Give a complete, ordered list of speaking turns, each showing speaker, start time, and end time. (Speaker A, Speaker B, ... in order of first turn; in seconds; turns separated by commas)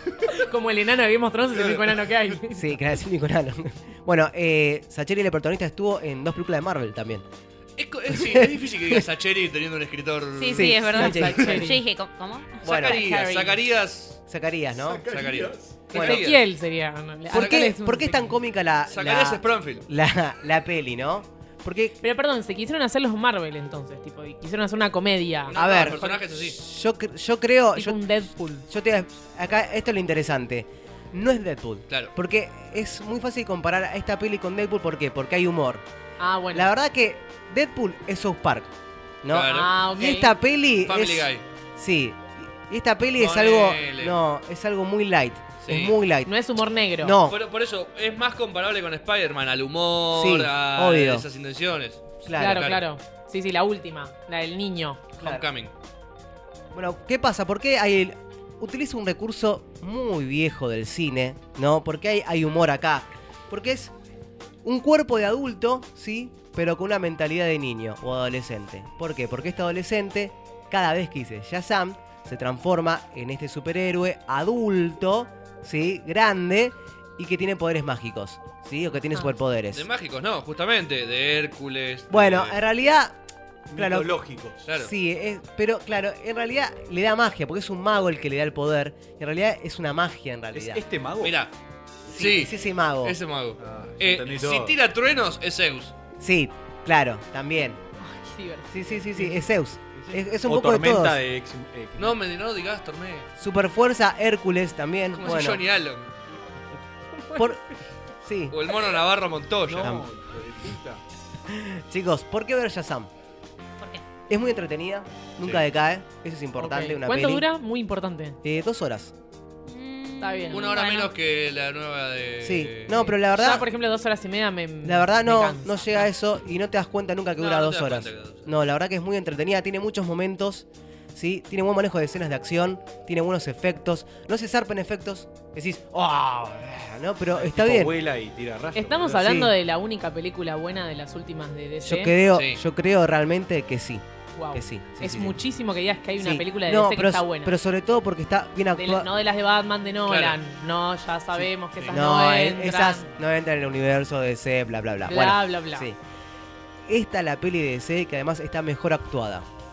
Speaker A: 0.2-2.6, Speaker B: 1.5-2.1, Speaker C: 2.5-7.2, Speaker B: 7.8-11.3, Speaker C: 8.1-9.0, Speaker D: 10.3-12.7, Speaker C: 10.5-11.7, Speaker A: 10.9-11.8, Speaker C: 12.6-13.0, Speaker B: 12.6-14.2, Speaker A: 12.9-13.5, Speaker C: 14.3-15.1, Speaker E: 14.7-15.9, Speaker B: 15.1-16.4, Speaker A: 15.9-18.4, Speaker C: 15.9-16.3, Speaker C: 17.3-21.9, Speaker B: 17.3-17.6, Speaker B: 18.9-19.9, Speaker A: 22.0-26.1, Speaker B: 25.5-26.6, Speaker C: 25.5-35.8, Speaker A: 27.7-28.6, Speaker B: 31.9-32.1, Speaker A: 36.2-36.7, Speaker C: 36.5-38.7, Speaker C: 39.2-46.3, Speaker B: 39.3-39.8, Speaker A: 39.5-40.3, Speaker B: 40.9-41.4, Speaker B: 43.2-44.2, Speaker B: 45.6-46.0, Speaker A: 46.3-47.1, Speaker C: 47.0-47.4, Speaker B: 47.3-52.8, Speaker C: 50.1-51.3, Speaker C: 52.2-52.8, Speaker A: 52.4-55.2, Speaker B: 55.2-55.7, Speaker C: 56.7-63.9, Speaker C: 64.6-79.8, Speaker B: 79.7-82.6, Speaker C: 82.1-83.2, Speaker E: 83.7-84.6, Speaker C: 83.7-84.1, Speaker B: 84.7-84.9, Speaker C: 84.7-90.8, Speaker E: 90.5-91.4, Speaker B: 91.2-91.5, Speaker C: 92.1-93.2, Speaker B: 92.1-95.9, Speaker E: 93.6-94.8, Speaker C: 96.2-97.8, Speaker A: 98.0-99.4, Speaker C: 98.7-101.2, Speaker E: 99.9-102.2, Speaker B: 102.0-103.3, Speaker C: 103.4-105.6, Speaker B: 105.2-106.1, Speaker A: 107.2-107.5, Speaker C: 107.3-107.6, Speaker C: 108.2-108.6, Speaker B: 108.5-109.9, Speaker E: 109.7-111.0, Speaker C: 111.5-113.1, Speaker D: 113.8-114.1, Speaker C: 114.3-117.4, Speaker A: 116.6-118.4, Speaker C: 118.4-119.1, Speaker D: 119.7-121.1, Speaker A: 120.2-120.7, Speaker B: 120.5-123.0, Speaker C: 122.4-123.7, Speaker A: 122.9-126.1, Speaker C: 124.8-137.9, Speaker B: 127.4-128.5, Speaker E: 137.3-139.3, Speaker A: 138.7-142.1, Speaker C: 139.2-139.5, Speaker C: 141.8-144.0, Speaker B: 142.3-142.6, Speaker A: 144.3-147.5, Speaker C: 144.5-145.4, Speaker C: 146.2-149.1, Speaker A: 148.8-153.1, Speaker B: 150.1-150.3, Speaker C: 151.3-156.0, Speaker A: 155.1-155.9, Speaker C: 156.9-159.4